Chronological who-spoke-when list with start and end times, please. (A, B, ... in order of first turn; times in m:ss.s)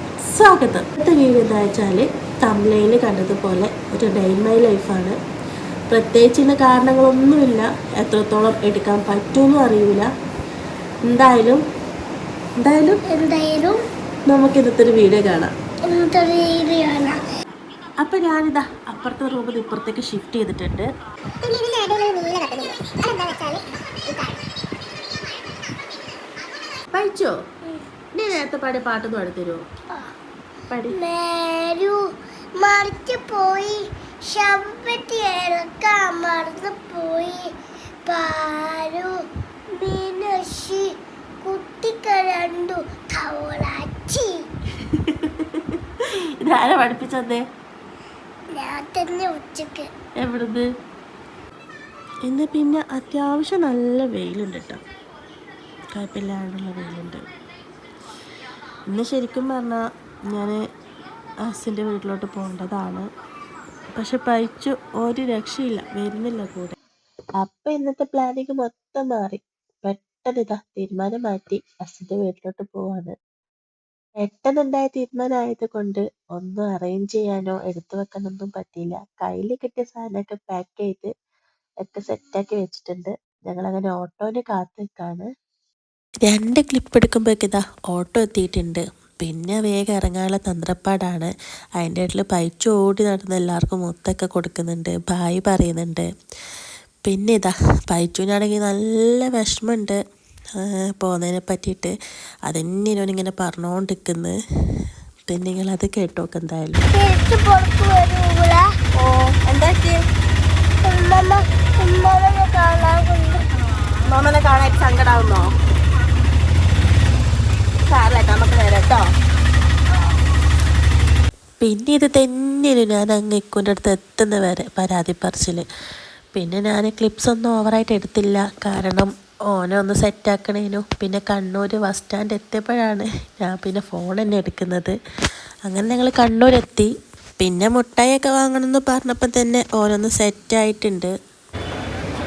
0:00.2-0:05.2 A
0:05.9-0:10.1 A
0:11.1-0:11.6 A
0:12.6-0:13.0 A
0:13.1-0:13.8 B
0:14.3-0:15.5 A
0:15.9-0:17.2 B
0:18.0-0:20.9 A
0:21.4-0:24.4 B
0:26.9-0:27.4 A
0:28.1-0:29.6 A
0:30.7-0:31.0 A
0:30.9-0:32.0 B
0:32.6-0:37.5 B
0:38.1-0:39.1 B
0:39.8-0:40.9 B
0:41.4-0:44.4 B
0:44.9-0:47.4 A
0:48.5-0:49.9 B
0:50.2-0:50.6 A
0:52.2-0:54.8 A
0:56.0-0:57.2 A
0:58.9-1:00.6 A
1:01.4-1:03.1 A
1:03.9-1:06.8 A
1:07.4-1:13.2 A
1:14.2-1:21.1 A
1:21.8-1:25.3 A
1:26.3-1:36.1 A
1:37.1-1:40.0 A
1:40.6-1:41.9 A
1:42.5-1:44.4 A
1:45.3-1:46.8 A
1:46.9-1:48.7 B
1:49.0-1:50.0 A
1:50.8-1:53.4 B
1:54.1-1:55.4 A
1:57.9-1:59.0 A
2:01.6-2:05.6 A
2:06.4-2:15.0 A
2:15.7-2:21.1 A